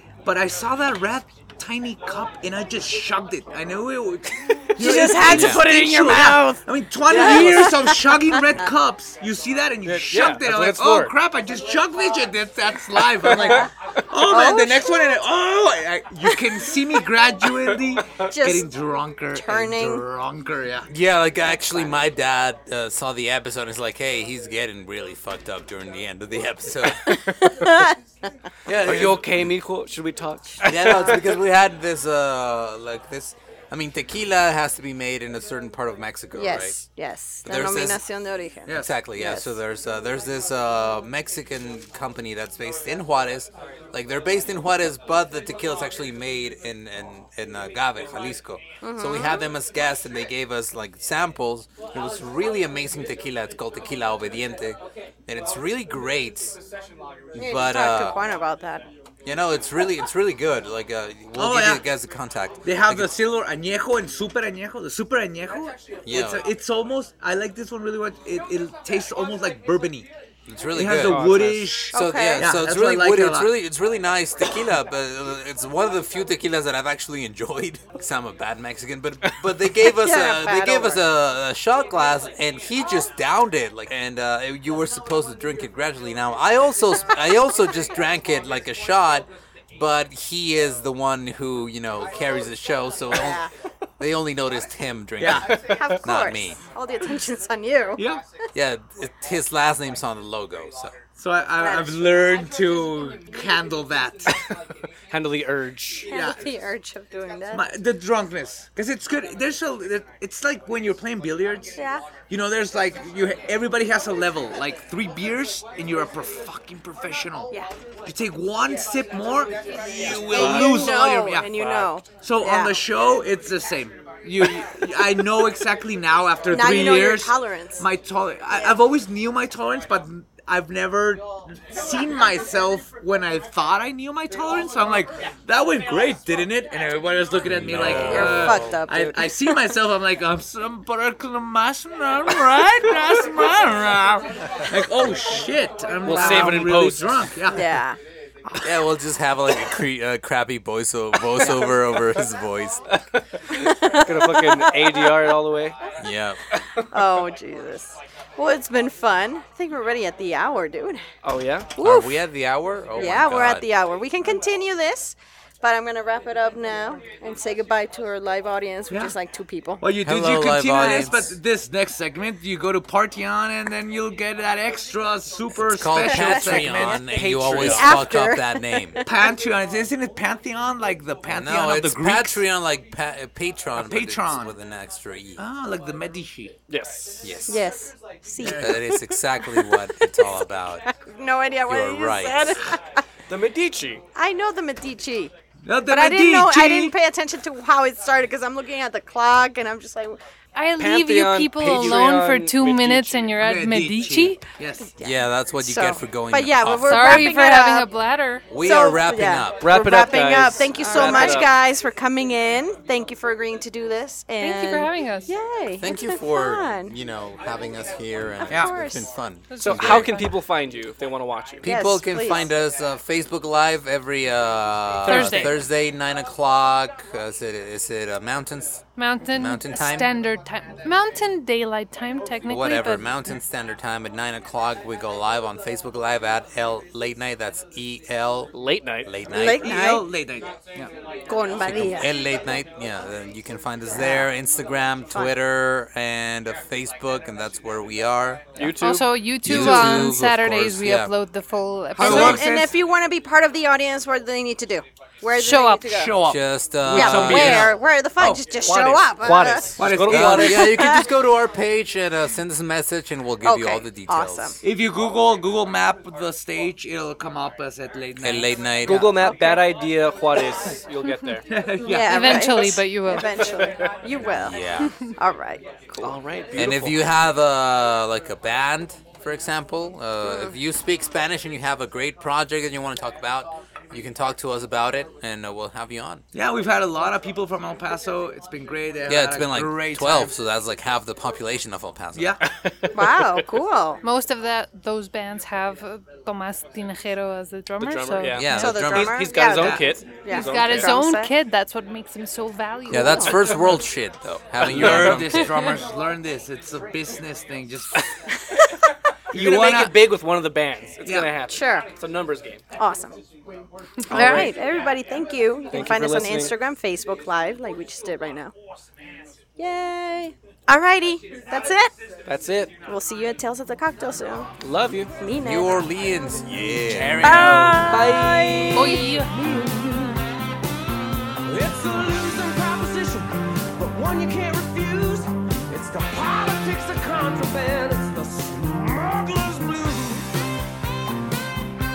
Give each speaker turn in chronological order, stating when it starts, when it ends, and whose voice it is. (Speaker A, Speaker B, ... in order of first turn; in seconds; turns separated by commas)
Speaker A: 0.2-20.9, Speaker B: 4.8-8.7, Speaker C: 5.2-5.7, Speaker D: 7.0-7.6, Speaker D: 9.8-11.1, Speaker D: 13.2-13.7, Speaker B: 14.3-15.2, Speaker B: 18.3-18.7, Speaker B: 19.3-20.0, Speaker C: 20.9-27.1, Speaker B: 21.7-22.0, Speaker B: 27.0-28.0, Speaker C: 28.6-29.5, Speaker D: 28.8-31.2, Speaker C: 30.6-36.8, Speaker B: 36.3-39.6, Speaker C: 37.4-38.0, Speaker A: 38.6-38.9, Speaker C: 38.7-56.6, Speaker B: 48.8-49.4, Speaker C: 57.3-58.2, Speaker B: 57.4-58.8, Speaker C: 59.2-63.1, Speaker A: 61.3-61.8, Speaker A: 62.6-70.1, Speaker C: 66.0-66.4, Speaker C: 70.5-93.4, Speaker A: 70.7-73.5, Speaker D: 70.9-71.8, Speaker B: 71.9-72.5, Speaker B: 80.0-81.0, Speaker B: 93.1-93.5, Speaker C: 94.0-96.6, Speaker A: 95.2-95.6, Speaker D: 95.3-96.0, Speaker B: 95.6-98.0, Speaker A: 98.0-98.2, Speaker C: 98.5-100.9, Speaker A: 101.2-104.3, Speaker B: 101.6-102.0, Speaker D: 105.1-106.1, Speaker B: 106.1-107.7, Speaker A: 106.1-106.4, Speaker A: 107.5-111.8, Speaker B: 111.8-112.0, Speaker A: 112.3-121.5, Speaker B: 120.3-122.8, Speaker D: 120.3-120.9, Speaker D: 121.5-121.9, Speaker A: 122.2-147.8, Speaker B: 126.5-127.8, Speaker C: 137.4-138.6, Speaker B: 137.8-139.3, Speaker D: 137.9-139.2, Speaker D: 146.0-147.3, Speaker B: 146.1-146.5, Speaker B: 147.5-148.0, Speaker C: 148.6-152.8, Speaker D: 151.4-151.8, Speaker D: 152.9-155.8, Speaker B: 153.7-155.1, Speaker C: 156.0-156.4, Speaker D: 156.5-156.9, Speaker B: 156.9-161.0, Speaker D: 161.2-161.7, Speaker B: 161.8-162.2, Speaker C: 161.8-163.7, Speaker B: 162.9-169.8, Speaker A: 168.9-169.1, Speaker A: 169.8-177.5, Speaker C: 170.0-171.4, Speaker C: 175.6-179.0, Speaker B: 176.0-176.7, Speaker D: 176.8-178.0, Speaker B: 177.6-179.2, Speaker A: 179.1-182.4, Speaker C: 181.3-185.4, Speaker A: 183.8-184.5, Speaker A: 185.4-186.5, Speaker D: 186.7-187.4, Speaker C: 187.2-187.7, Speaker B: 187.5-190.3, Speaker A: 188.4-188.8, Speaker C: 188.5-190.8, Speaker B: 190.8-193.0, Speaker C: 191.7-192.6, Speaker D: 193.3-194.0, Speaker B: 194.1-195.3, Speaker A: 195.6-196.9, Speaker B: 195.9-200.2, Speaker E: 200.5-204.4, Speaker D: 200.8-203.4, Speaker A: 203.4-204.9, Speaker B: 204.8-207.9, Speaker C: 205.0-207.3, Speaker E: 206.9-208.5, Speaker C: 208.5-209.7, Speaker B: 208.5-216.9, Speaker D: 209.6-211.5, Speaker E: 210.8-211.4, Speaker E: 214.4-215.3, Speaker C: 215.8-220.2, Speaker A: 218.5-218.8, Speaker B: 218.5-219.1, Speaker E: 219.5-220.3, Speaker D: 219.6-221.7, Speaker C: 221.6-228.8, Speaker B: 221.6-222.5, Speaker D: 225.1-225.6, Speaker E: 225.1-225.6, Speaker E: 228.9-233.3, Speaker C: 229.3-230.1, Speaker C: 232.5-238.5, Speaker D: 238.5-239.1, Speaker C: 239.0-239.6, Speaker B: 239.3-240.1, Speaker A: 239.5-240.9, Speaker B: 241.3-242.1, Speaker C: 241.6-248.7, Speaker B: 243.9-244.3, Speaker D: 248.6-249.1, Speaker E: 248.8-252.4, Speaker C: 249.4-251.1, Speaker A: 249.5-249.9, Speaker A: 251.9-252.7, Speaker B: 252.0-256.2, Speaker C: 252.0-252.4, Speaker E: 255.3-256.1, Speaker A: 255.8-258.5, Speaker C: 256.2-257.8, Speaker B: 256.9-259.7, Speaker D: 258.6-260.6, Speaker A: 259.8-260.8, Speaker C: 260.0-264.6, Speaker B: 260.3-261.1, Speaker B: 263.4-264.6, Speaker A: 264.6-268.6, Speaker C: 268.2-269.2, Speaker D: 268.9-271.4, Speaker B: 269.2-269.6, Speaker A: 271.5-272.5, Speaker B: 271.8-276.2, Speaker E: 271.9-273.4, Speaker D: 273.3-273.9, Speaker C: 274.2-274.9, Speaker E: 274.8-275.1, Speaker D: 276.0-277.0, Speaker C: 276.5-286.2, Speaker B: 280.2-280.6, Speaker A: 286.3-290.3, Speaker C: 289.1-292.3, Speaker D: 292.4-293.2, Speaker B: 292.9-294.0, Speaker E: 294.0-298.5, Speaker D: 297.8-300.9, Speaker C: 298.3-299.4, Speaker B: 298.5-301.3, Speaker A: 299.5-299.9, Speaker E: 300.3-303.8, Speaker C: 302.9-305.5, Speaker D: 304.6-305.4, Speaker A: 304.6-308.0, Speaker A: 309.3-309.9, Speaker D: 309.3-312.6, Speaker A: 311.0-311.3, Speaker B: 311.5-311.9, Speaker B: 312.8-313.1, Speaker E: 314.1-314.5, Speaker D: 314.1-314.5, Speaker B: 314.1-318.5, Speaker D: 315.7-316.5, Speaker B: 319.6-321.9, Speaker D: 322.3-322.7, Speaker B: 322.9-324.5, Speaker D: 324.6-325.1, Speaker B: 325.2-325.8, Speaker C: 325.4-327.5, Speaker A: 326.9-327.9, Speaker B: 327.2-329.1, Speaker D: 327.5-328.3, Speaker F: 327.8-330.2, Speaker E: 328.7-329.3, Speaker F: 331.4-340.4